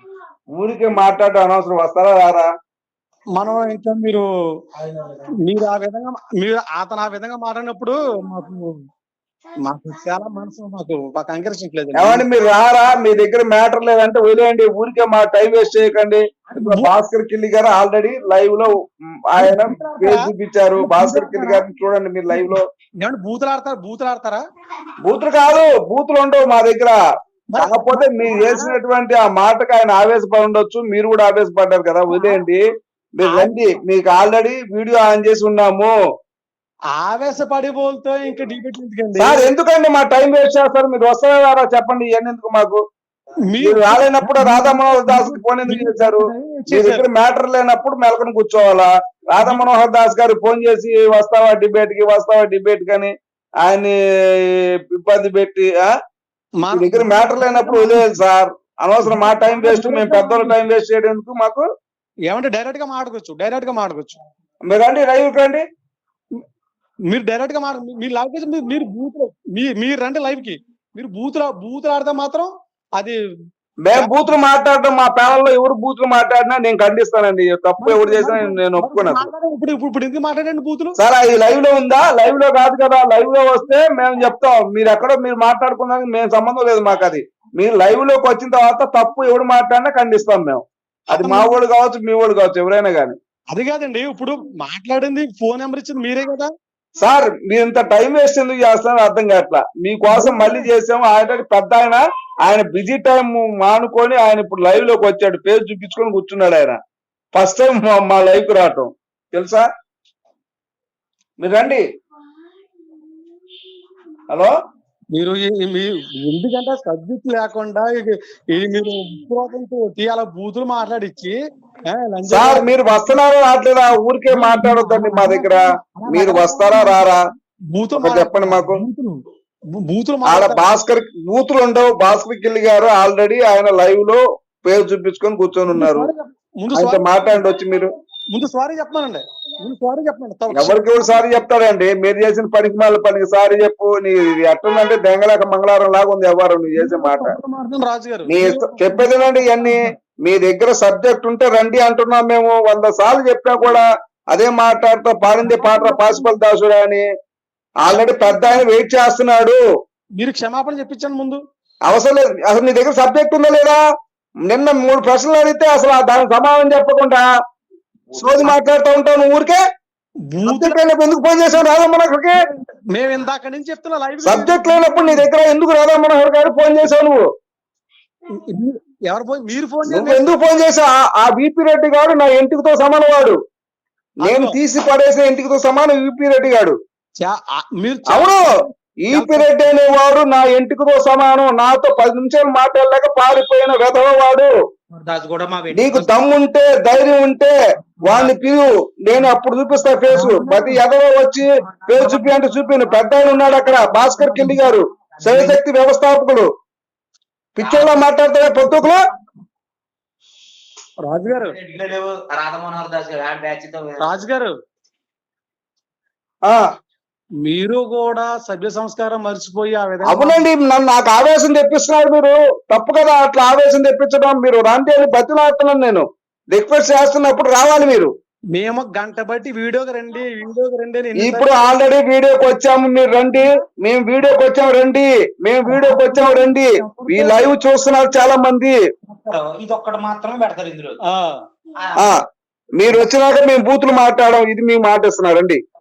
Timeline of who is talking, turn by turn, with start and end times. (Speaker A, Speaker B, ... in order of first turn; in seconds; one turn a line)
Speaker A: 0.6-2.5
Speaker B: 3.4-4.2
Speaker B: 5.4-8.7
Speaker B: 9.6-12.2
Speaker A: 11.9-18.7
Speaker B: 16.5-16.9
Speaker A: 19.3-22.6
Speaker B: 19.4-21.6
Speaker B: 22.3-24.4
Speaker A: 25.0-27.0
Speaker B: 27.5-28.8
Speaker A: 27.6-32.6
Speaker B: 32.1-32.4
Speaker A: 33.1-35.9
Speaker B: 33.2-33.5
Speaker B: 36.9-39.5
Speaker A: 39.1-42.8
Speaker B: 43.5-47.0
Speaker A: 43.6-55.9
Speaker B: 56.6-58.1
Speaker A: 56.7-61.6
Speaker B: 59.0-60.6
Speaker B: 62.3-64.2
Speaker A: 64.7-65.6
Speaker B: 67.1-73.1
Speaker A: 73.8-79.3
Speaker B: 73.9-74.2
Speaker B: 77.8-81.0
Speaker A: 81.0-93.2
Speaker B: 91.1-91.5
Speaker B: 93.5-96.5
Speaker A: 97.0-106.8
Speaker B: 100.1-100.7
Speaker A: 107.3-109.7
Speaker A: 111.4-111.8
Speaker B: 115.1-121.3
Speaker B: 121.9-123.2
Speaker A: 122.2-127.2
Speaker B: 124.3-127.2
Speaker B: 127.7-129.2
Speaker A: 127.9-128.7
Speaker B: 129.8-130.6
Speaker A: 130.3-136.1
Speaker B: 135.7-137.4
Speaker A: 136.7-137.9
Speaker B: 138.3-141.4
Speaker A: 140.5-147.3
Speaker B: 146.7-149.9
Speaker A: 148.3-157.0
Speaker B: 155.4-156.3
Speaker A: 157.8-159.6
Speaker B: 160.2-161.4
Speaker A: 161.9-163.8
Speaker A: 164.5-167.2
Speaker A: 168.1-169.6
Speaker C: 168.2-168.5
Speaker B: 170.3-170.8
Speaker A: 170.4-172.3
Speaker B: 172.4-175.3
Speaker A: 174.2-177.2
Speaker B: 178.4-180.3
Speaker A: 179.9-183.4
Speaker B: 184.2-184.6
Speaker A: 184.2-186.7
Speaker B: 187.2-189.5
Speaker A: 188.1-188.4
Speaker A: 189.0-194.5
Speaker C: 194.9-196.1
Speaker A: 195.7-206.5
Speaker C: 200.1-200.7
Speaker B: 200.3-200.7
Speaker C: 201.4-205.6
Speaker A: 207.6-209.0
Speaker C: 207.6-208.9
Speaker B: 211.0-211.5
Speaker C: 211.3-214.2
Speaker B: 214.0-214.5
Speaker B: 217.4-220.4
Speaker A: 220.1-228.1
Speaker B: 228.5-231.6
Speaker A: 231.2-238.8
Speaker B: 235.7-237.5
Speaker C: 239.1-241.0
Speaker B: 241.1-241.4
Speaker C: 241.8-242.2
Speaker A: 242.0-242.2
Speaker A: 242.8-245.6